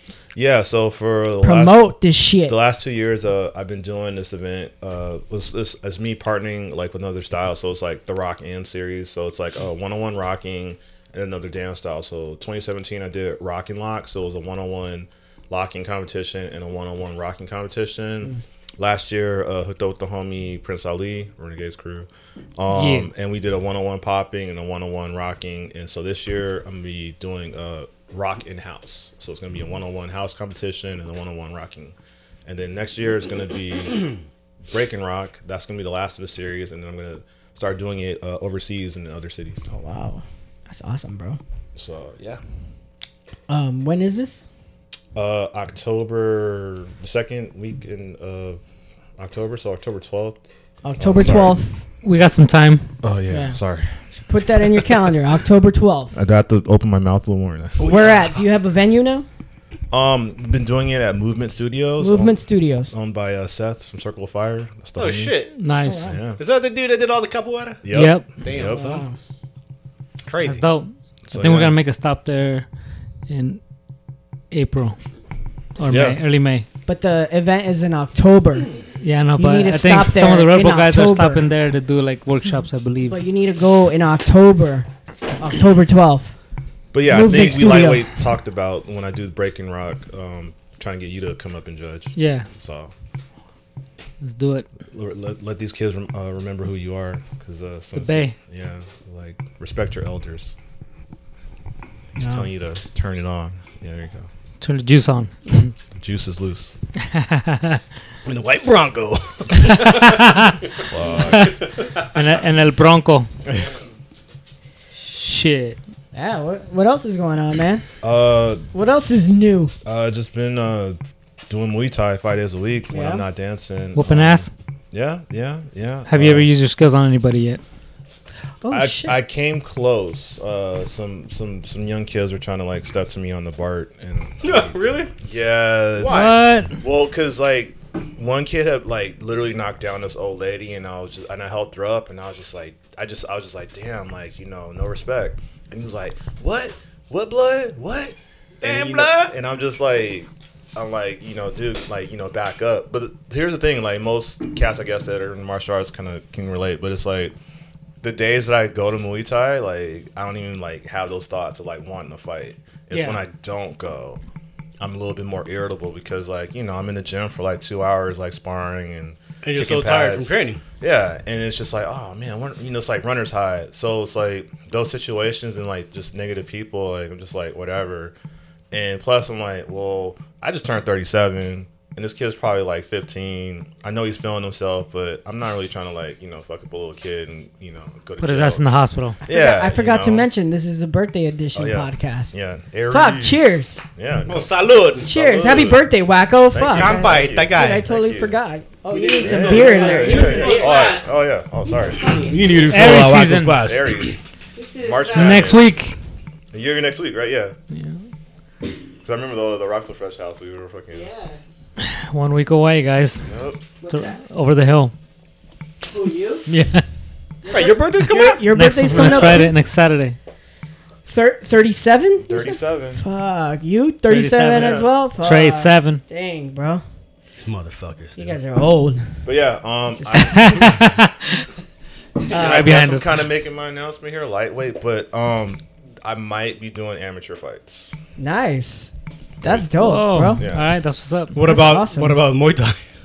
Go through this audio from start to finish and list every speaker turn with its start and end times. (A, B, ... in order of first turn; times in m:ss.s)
0:00.4-0:01.9 A
0:01.4-0:02.6 B
0:02.5-0:31.9 A
0:22.7-0:23.1 C
0:32.5-0:34.1 A
0:34.7-0:39.7 A
0:39.7-0:41.4 B
0:41.8-0:42.4 A
0:43.5-0:44.4 B
0:45.2-0:48.6 A
0:49.2-0:50.4 A
0:50.8-0:51.8 B
0:51.0-0:51.6 A
0:52.0-0:52.9 C
0:53.0-0:54.0 A
0:53.3-0:53.6 B
0:54.3-0:56.2 B
0:56.1-0:57.9 A
0:57.8-0:59.3 B
0:57.8-0:58.1 D
0:59.9-1:02.4 A
1:02.0-1:02.9 B
1:02.9-1:05.4 A
1:05.0-1:05.5 D
1:05.6-1:06.1 C
1:05.8-1:06.2 B
1:06.0-1:06.4 A
1:06.4-1:07.8 D
1:07.8-1:08.9 A
1:07.9-1:08.3 C
1:08.4-1:09.0 D
1:08.7-1:09.2 B
1:10.2-1:10.7 D
1:10.4-1:12.7 C
1:11.3-1:11.8 A
1:13.3-1:13.6 C
1:14.5-1:15.0 C
1:15.8-1:16.6 C
1:15.9-1:16.2 A
1:16.9-1:18.7 B
1:19.0-1:23.2 C
1:19.4-1:21.4 B
1:23.1-1:24.9 B
1:25.4-1:26.3 B
1:26.9-1:32.9 A
1:27.1-1:28.1 B
1:32.2-1:32.5 C
1:34.2-1:34.7 C
1:34.9-1:40.6 A
1:37.9-1:38.4 C
1:42.2-1:44.3 A
1:42.2-1:42.5 B
1:44.6-1:45.7 C
1:46.0-1:46.7 A
1:47.0-1:47.8 C
1:48.2-1:50.4 D
1:49.8-1:50.6 C
1:50.8-1:51.5 A
1:51.3-1:52.1 D
1:51.3-1:51.6 C
1:52.1-1:53.3 C
1:55.0-1:55.8 C
1:56.1-1:57.8 B
1:58.0-1:58.7 A
1:58.7-1:59.7 B
1:59.8-2:01.0 A
2:01.5-2:06.5 A
2:02.9-2:03.2 B
2:04.0-2:04.5 C
2:06.1-2:07.6 C
2:08.6-2:09.2 B
2:08.7-2:37.3 A
2:14.4-2:15.1 D
2:16.0-2:16.3 D
2:16.1-2:16.8 C
2:28.6-2:29.3 D
2:38.0-2:44.2 A
2:44.8-2:58.2 A
2:49.4-2:50.6 D
2:58.7-3:08.6 A
3:08.2-3:09.2 C
3:09.2-3:10.3 A
3:09.2-3:12.4 B
3:11.6-3:14.5 A
3:12.9-3:13.8 B
3:14.3-3:15.1 D
3:15.0-3:15.9 A
3:15.0-3:20.8 B
3:16.5-3:18.4 A
3:16.6-3:17.9 D
3:18.9-3:21.1 D
3:19.2-3:24.2 A
3:21.9-3:24.2 D
3:22.0-3:22.3 B
3:22.7-3:23.7 C
3:24.6-3:25.6 B
3:24.8-3:25.7 A
3:25.1-3:26.0 C
3:26.5-3:27.6 A
3:27.7-3:28.0 C
3:29.0-3:31.1 A
3:30.9-3:31.4 B
3:31.8-3:33.3 C
3:33.2-3:33.6 A
3:33.8-3:34.2 B
3:33.9-3:34.9 C
3:35.8-3:36.5 B
3:36.5-3:36.8 C
3:37.4-3:39.5 B
3:37.5-3:39.3 D
3:38.5-3:40.2 C
3:39.0-3:39.5 A
3:41.1-3:46.8 B
3:42.2-3:43.0 A
3:44.1-3:46.0 C
3:44.5-3:44.9 A
3:47.3-3:48.4 D
3:48.2-3:49.2 B
3:49.2-3:51.0 A
3:50.0-3:50.8 B
3:50.1-3:51.4 C
3:52.3-3:53.2 C
3:52.3-3:57.9 A
3:52.3-3:52.6 B
3:58.2-4:00.5 B
3:59.8-4:01.4 C
4:00.4-4:00.7 A
4:01.3-4:02.8 D
4:01.4-4:02.2 B